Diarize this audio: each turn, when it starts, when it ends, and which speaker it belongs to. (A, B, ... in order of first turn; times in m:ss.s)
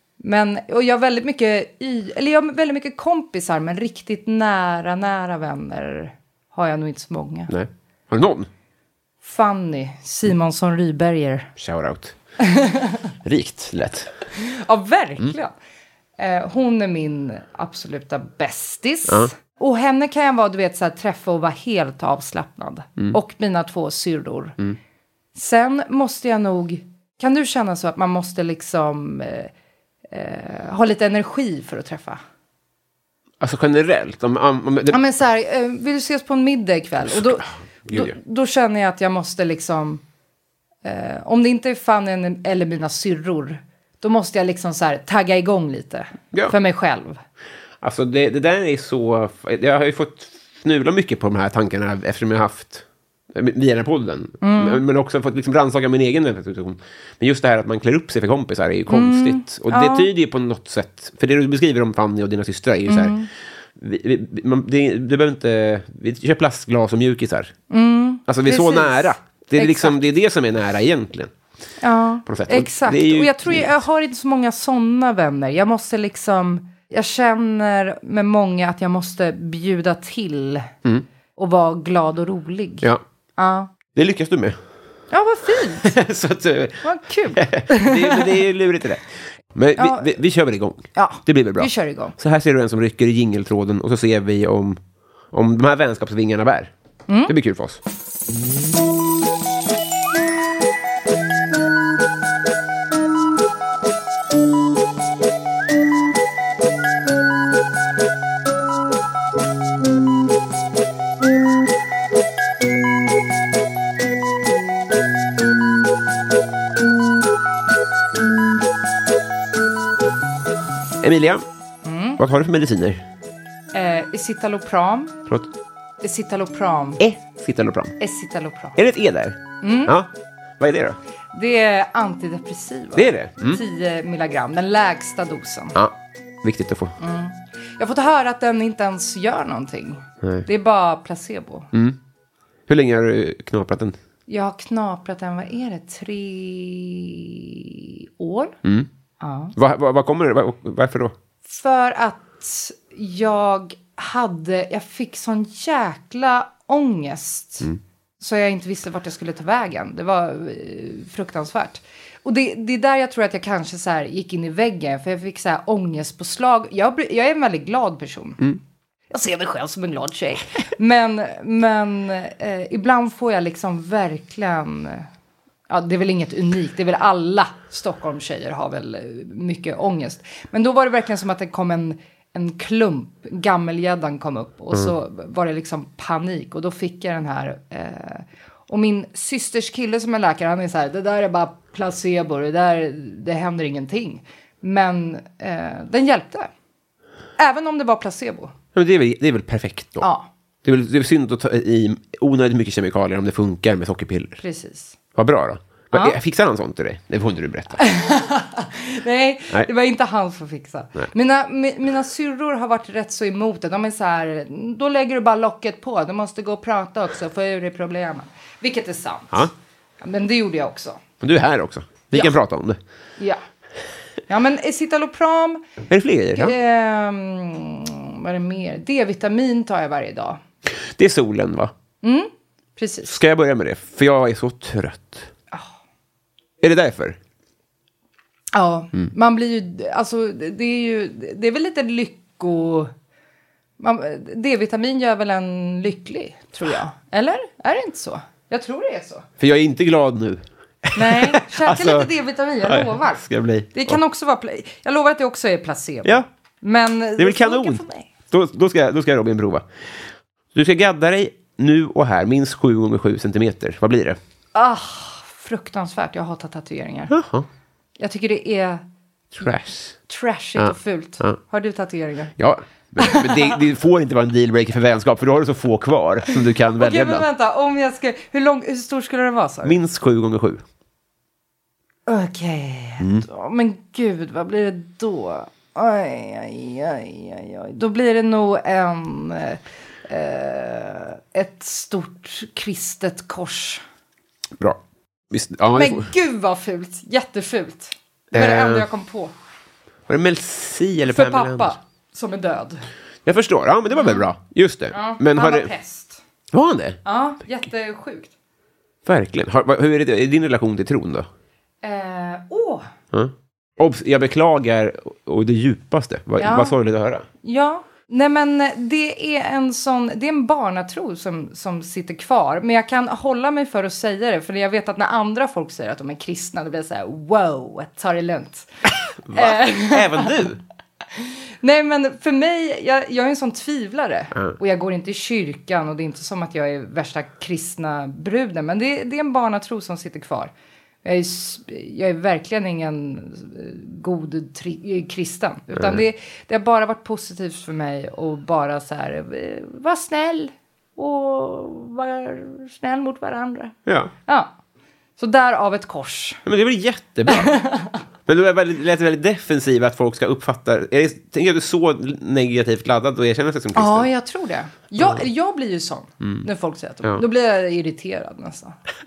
0:00.2-0:07.5 A
0:07.5-0:08.5 B
0:09.2-0:11.5 A
0:11.6-0:12.2 B
0:12.4-0:13.1 A
0:13.2-0:14.1 B
0:14.3-0:15.5 A
0:16.2-0:24.6 A
0:25.4-0:29.5 A
0:30.1-0:32.2 A
0:33.4-0:35.0 B
0:34.9-0:40.0 A
0:37.0-0:38.2 B
0:40.8-0:47.2 A
0:47.8-1:03.2 B
0:54.4-0:54.8 A
0:58.9-1:00.1 A
1:02.9-1:03.3 A
1:03.8-1:07.5 B
1:07.7-1:10.1 A
1:08.3-1:11.3 B
1:11.8-1:20.7 A
1:12.3-1:13.8 B
1:21.4-1:23.7 A
1:23.9-1:24.6 B
1:25.1-1:26.0 A
1:25.8-1:34.8 B
1:26.8-1:28.4 A
1:29.8-1:30.1 A
1:31.0-1:32.2 A
1:35.3-1:36.7 B
1:37.1-1:37.3 A
1:37.3-1:37.8 B
2:01.0-2:01.4 B
2:01.8-2:02.2 A
2:02.2-2:03.0 B
2:03.7-2:05.2 A
2:06.0-2:07.0 A
2:07.0-2:08.0 B
2:08.0-2:08.8 A
2:08.8-2:10.1 B
2:09.6-2:10.0 A
2:10.6-2:11.0 B
2:11.3-2:15.8 A
2:13.0-2:13.6 B
2:15.8-2:16.9 B
2:17.0-2:21.7 A
2:21.7-2:22.0 B
2:22.7-2:24.0 B
2:24.3-2:28.6 A
2:28.6-2:28.9 B
2:29.2-2:29.5 A
2:29.6-2:31.2 B
2:31.4-2:37.7 A
2:38.2-2:48.4 A
2:49.1-2:55.1 A
2:55.7-3:16.5 A
3:17.4-3:18.5 A
3:18.8-3:20.1 B
3:20.0-3:20.3 A
3:20.6-3:24.4 B
3:24.4-3:25.0 A
3:25.2-3:27.8 B
3:25.9-3:26.2 A
3:27.8-3:39.5 A
3:40.0-3:41.0 A
3:41.2-3:42.8 B
3:44.3-3:45.6 A
3:45.9-3:46.6 B
3:46.3-3:50.4 A
3:50.8-3:51.7 B
3:52.0-3:53.2 A
3:53.1-3:55.3 B
3:56.6-3:57.2 B
3:58.5-4:02.9 A
4:03.8-4:09.3 A
4:09.4-4:12.1 B
4:11.0-4:18.1 A
4:12.6-4:14.0 B
4:17.2-4:20.0 B
4:20.5-4:24.2 B
4:24.6-4:27.1 A
4:27.1-4:27.5 B
4:28.0-4:28.8 A
4:29.3-4:30.0 B
4:30.1-4:32.4 A
4:30.6-4:31.4 B
4:32.4-4:37.3 B
4:33.0-4:33.6 A
4:36.8-4:39.8 A
4:39.6-4:40.6 B
4:42.1-4:53.8 A
4:43.0-4:43.3 B
4:54.6-4:56.1 B
4:55.7-4:59.3 A
4:58.3-4:58.9 B
5:00.1-5:01.8 B
5:01.1-5:02.8 A
5:03.2-5:05.7 B
5:03.9-5:04.3 A
5:04.9-5:06.2 A
5:06.5-5:07.0 B
5:07.0-5:08.3 A
5:09.1-5:11.3 B
5:11.8-5:12.9 A
5:13.1-5:17.3 B
5:16.4-5:16.8 A
5:17.4-5:28.7 A
5:29.2-5:30.6 B
5:29.3-5:30.4 A
5:31.1-5:40.5 A
5:41.0-5:54.5 A
5:45.7-5:46.0 B
5:53.9-5:54.1 B
5:55.2-5:56.4 A
5:56.4-5:57.5 B
5:57.3-5:58.0 A
5:58.3-6:04.1 B
6:03.8-6:08.8 A
6:06.2-6:06.5 B